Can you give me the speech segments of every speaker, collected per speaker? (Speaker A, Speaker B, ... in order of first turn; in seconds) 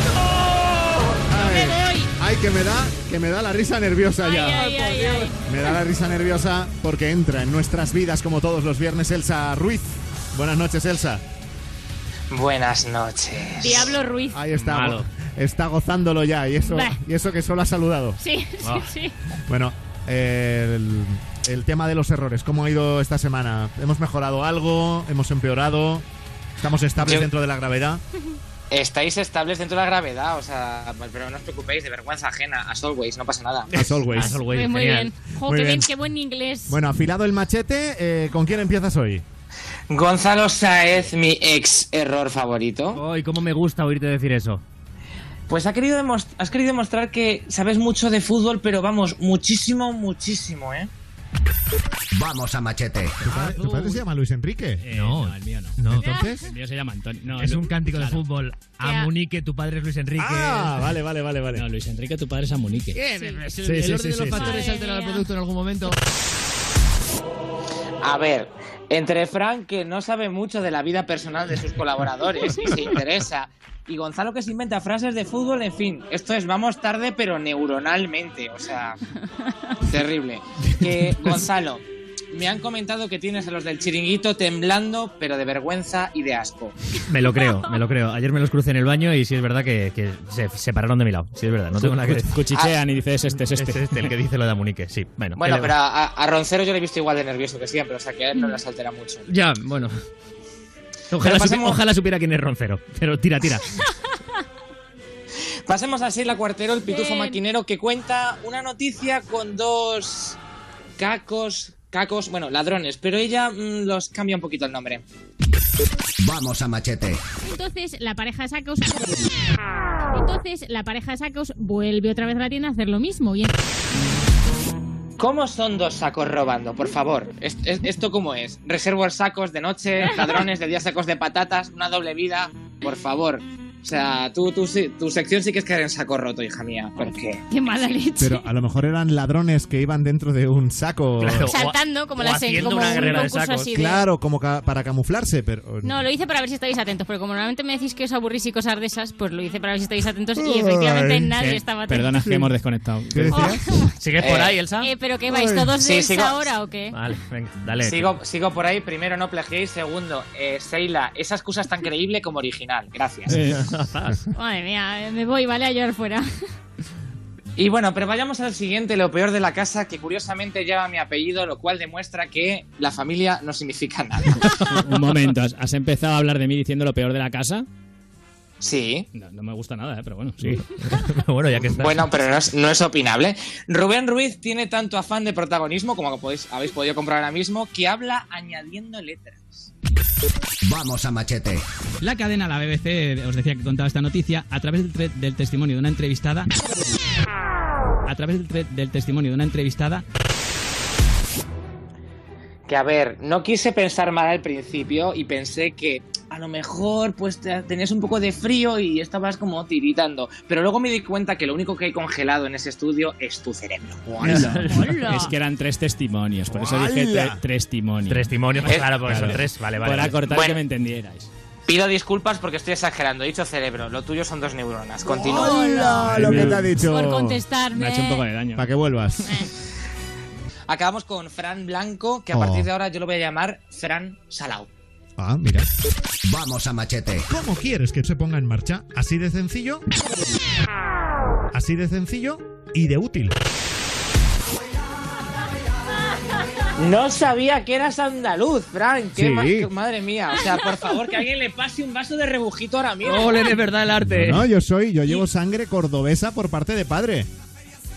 Speaker A: 1.3-4.7, 5.4-11.2, 14.3-18.2, 19.5-26.1, 26.6-28.0, 33.7-34.4, 35.5-35.9, 36.7-39.2, 53.2-54.8, 55.9-56.5, 60.2-61.7, 63.6-64.5, 138.2-141.5, 143.7-146.0, 150.4-151.3, 152.2-152.5, 153.1-153.8, 155.3-155.7, 216.5-217.4, 225.1-227.4, 228.6-229.3, 232.3-232.7, 235.2-235.7, 237.3-239.8, 241.5-243.4, 249.2-249.7, 254.0-257.3
Speaker B: 1.3-2.1, 4.2-5.7, 13.6-14.4, 16.6-17.0, 18.2-19.1, 34.5-36.8, 56.0-56.5, 58.8-59.1, 63.2-63.5, 64.3-65.3, 106.9-107.4, 117.4-119.3, 120.1-123.6, 137.5-138.5, 141.4-144.1, 145.8-152.1, 153.3-153.9, 154.8-157.2, 164.3-166.2, 214.7-215.3, 225.4-226.3, 226.8-228.3
Speaker C: 12.3-14.0, 27.0-27.3, 28.7-33.8, 39.9-43.0, 45.5-50.9, 68.0-79.0, 79.8-86.8, 92.5-92.8, 95.4-99.3, 101.2-101.8, 105.7-110.4, 111.0-115.0, 125.2-137.4, 154.2-154.7, 155.8-156.5, 157.8-163.4, 167.6-174.4, 178.6-179.1, 181.5-189.7, 202.7-214.5, 218.7-219.1, 220.3-220.6, 221.7-225.6, 230.7-234.7, 246.8-253.6
Speaker D: 14.5-15.1, 18.6-18.9, 33.8-35.1, 42.9-44.6, 53.3-54.0, 54.9-56.2, 57.4-60.9, 62.9-66.0, 87.1-92.4, 93.5-95.7, 99.3-99.9, 101.1-103.7, 141.2-143.7, 154.0-154.9, 156.9-158.2, 163.5-164.2, 180.4-182.0, 214.2-215.0, 218.1-220.2, 253.1-254.5
Speaker E: 52.1-53.2, 116.2-117.2, 190.7-191.7, 236.3-237.3
Speaker F: 54.8-58.2, 61.5-63.0, 91.8-94.1, 151.4-153.6, 163.3-163.6, 174.6-177.7, 179.1-180.7, 192.0-196.5, 198.1-200.1, 214.2-221.3, 226.1-226.8, 227.7-228.7